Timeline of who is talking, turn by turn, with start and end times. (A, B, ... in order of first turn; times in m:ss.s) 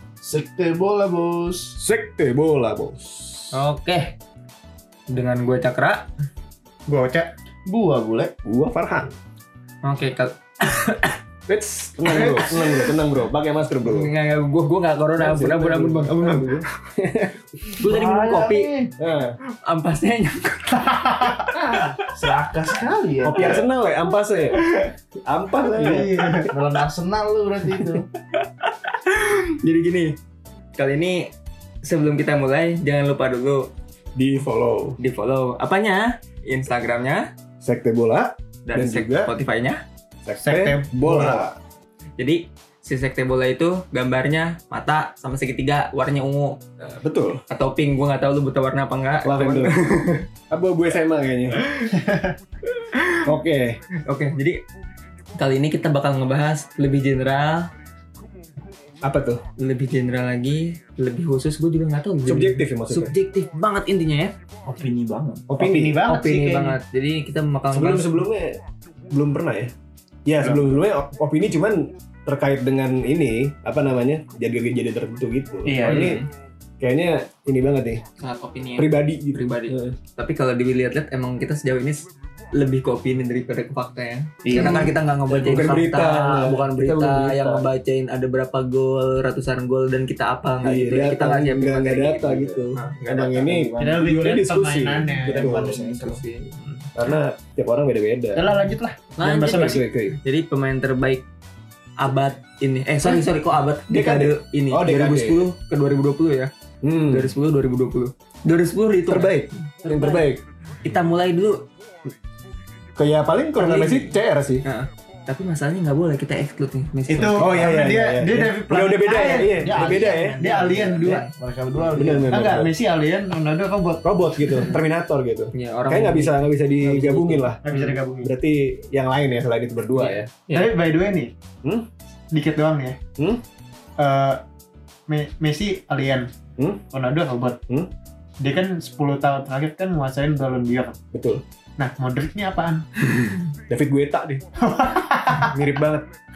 0:00.2-0:01.8 A
0:01.8-0:03.5 B
0:03.5-0:04.2 C
0:05.1-0:06.1 C
0:06.9-0:07.3 D
0:07.7-0:08.3 A
0:08.4-0:09.1 B
0:09.8-0:11.2 C
0:11.5-0:14.1 B
0:12.1-0:12.7 C
0:12.1-0:12.8 D
0:13.8-0:16.3 C
0:15.2-0:17.7 B
0:17.8-0:18.7 C
0:17.8-0:18.9 A
0:19.0-0:19.4 B
0:19.6-0:20.8 C
0:20.7-0:21.6 D
0:22.1-0:23.7 A
0:23.2-0:24.7 B
0:25.2-0:26.4 B
0:25.7-0:26.5 D
0:26.5-0:28.1 A
0:28.3-0:30.2 C
0:30.8-0:31.3 C
0:31.8-0:33.7 C
0:34.2-0:35.0 B
0:35.0-0:37.3 C
0:37.6-0:39.3 B
0:38.7-0:39.8 C
0:40.2-0:41.5 B
0:40.4-0:41.5 D
0:42.2-0:46.6 C
0:46.9-0:47.4 B
0:47.5-0:50.0 C
0:49.2-0:51.6 B
0:52.0-0:52.3 D
0:53.2-0:53.8 B
0:54.0-0:54.6 C
0:55.4-0:57.7 C
0:59.0-0:59.4 B
0:59.6-1:04.3 C
1:02.3-1:03.2 B
1:04.7-1:05.5 A
1:05.5-1:06.0 B
1:05.6-1:06.8 D
1:06.1-1:08.3 C
1:07.7-1:08.6 B
1:09.1-1:09.7 B
1:10.3-1:16.2 B
1:10.4-1:10.8 D
1:15.6-1:16.2 D
1:15.8-1:16.3 C
1:16.8-1:18.0 B
1:18.2-1:33.4 C
1:18.8-1:20.0 B
1:24.4-1:25.0 A
1:25.3-1:27.7 B
1:30.6-1:35.8 B
1:33.1-1:34.2 A
1:33.8-1:35.5 D
1:35.3-1:36.2 A
1:35.5-1:36.9 C
1:37.0-1:38.5 B
1:38.4-1:39.8 D
1:39.2-1:41.2 C
1:39.4-1:40.2 B
1:42.0-1:46.5 C
1:43.9-1:45.5 B
1:46.8-1:47.3 B
1:47.1-1:50.3 C
1:49.1-1:50.4 B
1:50.8-1:51.6 C
1:53.0-1:54.6 B
1:53.6-1:57.5 C
1:57.1-2:01.3 D
1:57.2-2:00.4 B
1:59.5-2:02.3 A
2:01.9-2:02.7 B
2:02.3-2:04.8 D
2:04.0-2:07.6 B
2:05.6-2:07.9 C
2:07.6-2:08.3 D
2:08.2-2:10.3 B
2:10.0-2:10.7 C
2:10.5-2:11.3 D
2:12.3-2:13.0 D
2:14.0-2:14.4 D
2:15.1-2:16.3 D
2:16.6-2:16.8 B
2:16.9-2:17.6 D
2:18.4-2:21.0 D
2:21.1-2:21.4 B
2:21.8-2:22.9 D
2:23.7-2:24.4 B
2:24.6-2:25.6 D
2:25.4-2:26.0 B